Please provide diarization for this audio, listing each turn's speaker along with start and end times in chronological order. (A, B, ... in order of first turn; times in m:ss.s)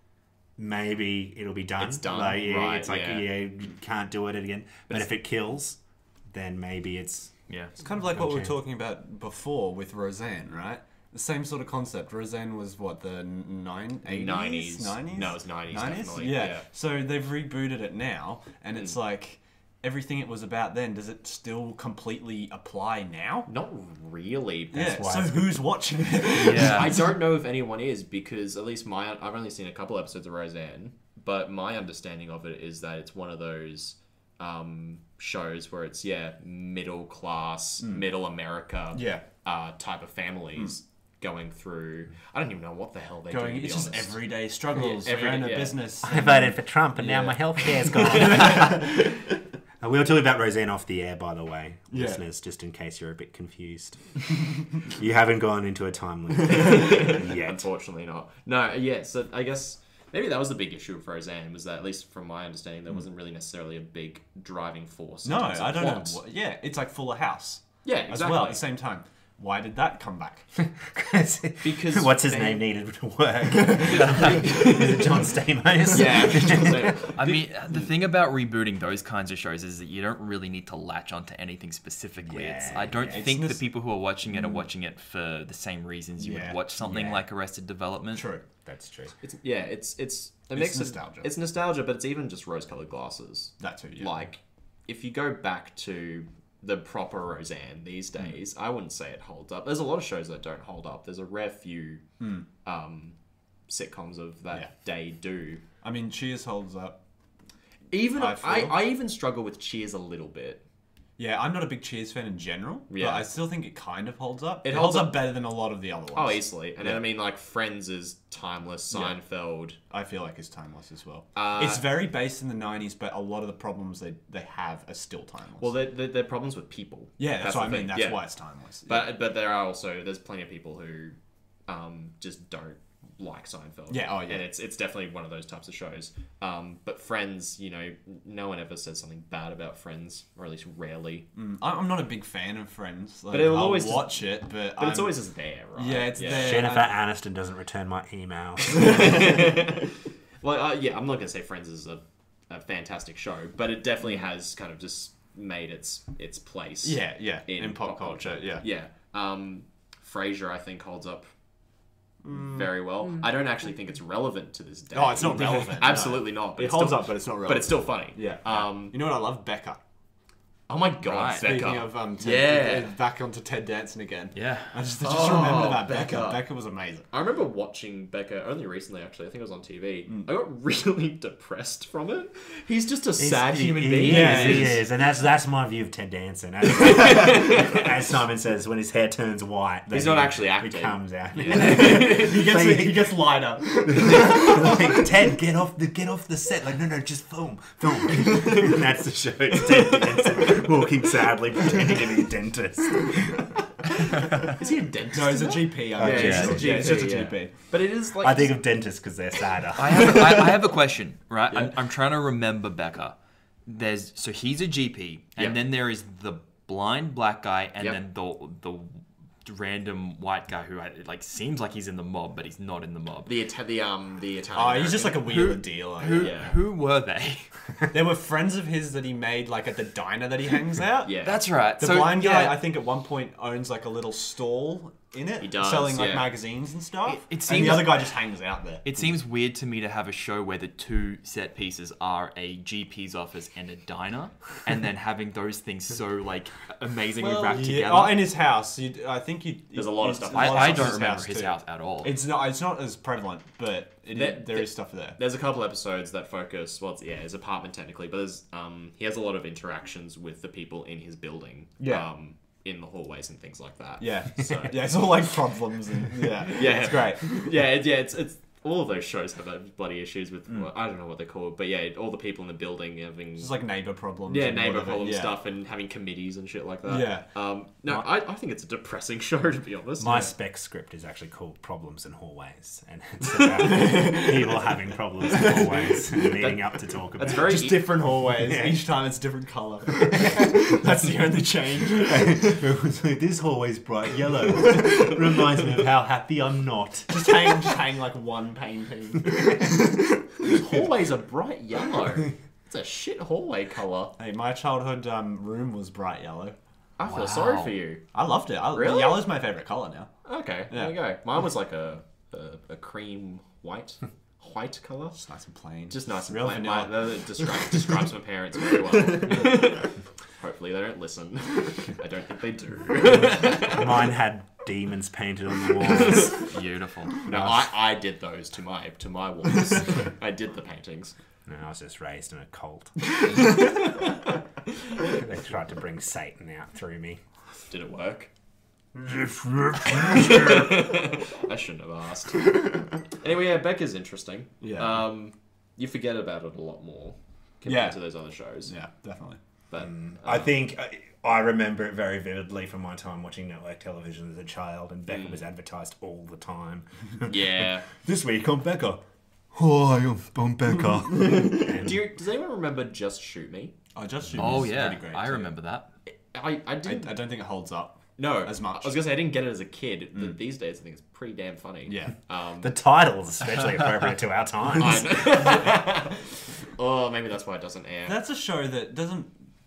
0:00.6-0:07.5 A
0:01.8-0:03.3 B
0:07.5-0:07.8 C
0:07.8-0:23.5 D
0:08.1-0:08.6 A
0:14.1-0:16.7 B
0:23.5-0:25.1 B
0:24.7-0:27.0 D
0:24.8-0:25.6 A
0:26.4-0:27.0 C
0:26.6-0:45.8 B
0:38.9-0:39.2 D
0:43.3-0:49.2 D
0:46.0-0:49.1 A
0:49.8-0:57.6 A
0:51.9-0:52.2 D
0:56.5-1:06.2 B
1:05.2-1:10.5 D
1:07.8-1:08.6 B
1:10.6-1:17.0 A
1:11.6-1:12.6 B
1:13.7-1:14.0 D
1:13.9-1:14.4 C
1:14.5-1:14.8 B
1:15.9-1:17.9 B
1:17.2-1:28.3 C
1:22.3-1:23.2 A
1:23.0-1:23.6 D
1:24.3-1:24.6 D
1:26.2-1:27.2 D
1:28.1-1:28.4 D
1:28.6-1:29.2 A
1:29.2-1:43.2 B
1:30.5-1:31.3 D
1:33.6-1:34.2 D
1:42.2-1:42.5 D
1:43.7-1:45.6 B
1:45.8-1:47.0 D
1:47.9-1:50.6 B
1:48.2-1:48.8 D
1:51.2-1:57.0 D
1:52.9-1:53.3 B
1:54.6-1:55.3 B
1:56.1-1:59.8 B
1:59.9-2:05.7 D
2:01.4-2:01.8 B
2:05.6-2:21.3 B
2:07.2-2:09.1 D
2:13.9-2:14.4 D
2:21.3-2:27.0 D
2:23.3-2:26.7 B
2:26.3-2:29.2 A
2:28.8-2:41.3 B
2:36.8-2:38.7 D
2:42.2-2:42.7 D
2:42.3-2:49.0 B
2:44.9-2:49.8 D
2:50.7-2:52.9 B
2:51.0-2:51.6 C
2:51.4-2:57.1 D
2:54.4-2:54.8 C
2:55.0-2:56.5 B
2:57.1-3:04.8 B
3:03.2-3:13.2 A
3:04.0-3:04.8 D
3:06.7-3:07.9 B
3:09.9-3:12.4 B
3:11.5-3:15.1 D
3:13.7-3:23.7 A
3:24.5-3:28.6 B
3:25.1-3:27.5 D
3:26.0-3:27.2 A
3:26.2-3:26.7 C
3:28.2-3:30.4 A
3:29.8-3:43.3 C
3:30.1-3:30.5 D
3:43.3-3:45.4 B
3:44.5-3:46.4 D
3:45.3-3:47.6 C
3:46.2-3:46.6 B
3:47.9-3:51.2 D
3:51.0-3:51.4 B
3:51.2-3:52.6 C
3:51.8-3:59.1 D
3:55.4-3:56.4 B
3:57.0-3:58.3 C
3:58.8-4:08.3 C
4:07.2-4:15.2 D
4:09.7-4:11.2 B
4:10.3-4:12.1 C
4:14.1-4:25.0 B
4:21.8-4:22.1 D
4:24.0-4:27.5 D
4:26.4-4:33.6 B
4:33.4-4:35.3 D
4:34.3-4:40.3 B
4:36.9-4:37.3 D
4:40.0-4:48.8 A
4:43.3-4:43.9 B
4:43.6-4:44.7 D
4:45.3-4:46.1 D
4:45.4-4:47.9 B
4:47.3-4:52.6 D
4:52.1-4:57.7 A
4:54.5-4:55.6 D
4:57.1-5:00.9 D
5:00.5-5:04.2 B
5:04.2-5:06.6 D
5:07.0-5:08.1 B
5:07.0-5:07.8 C
5:08.1-5:10.1 D
5:08.7-5:09.3 B
5:10.2-5:15.2 B
5:10.7-5:11.0 D
5:15.2-5:18.0 D
5:15.9-5:24.1 B
5:18.9-5:19.4 D
5:23.1-5:26.4 A
5:25.9-5:26.4 B
5:26.4-5:27.2 C
5:27.2-5:31.2 B
5:27.3-5:27.7 A
5:31.5-5:33.1 A
5:35.1-5:37.2 A
5:37.7-5:38.3 B
5:39.0-5:40.6 A
5:40.1-5:48.7 B
5:44.6-5:45.0 D
5:47.6-5:49.4 D
5:49.7-5:50.5 B
5:49.8-6:02.0 A
5:55.1-5:55.4 B
5:57.3-5:57.9 B
6:01.3-6:01.8 D
6:01.7-6:03.8 B
6:04.0-6:05.5 D
6:04.4-6:05.9 C
6:06.1-6:07.2 B
6:06.8-6:09.1 D
6:08.2-6:12.7 B
6:11.9-6:12.2 D
6:12.6-6:15.4 A
6:14.8-6:18.2 B
6:18.1-6:19.4 D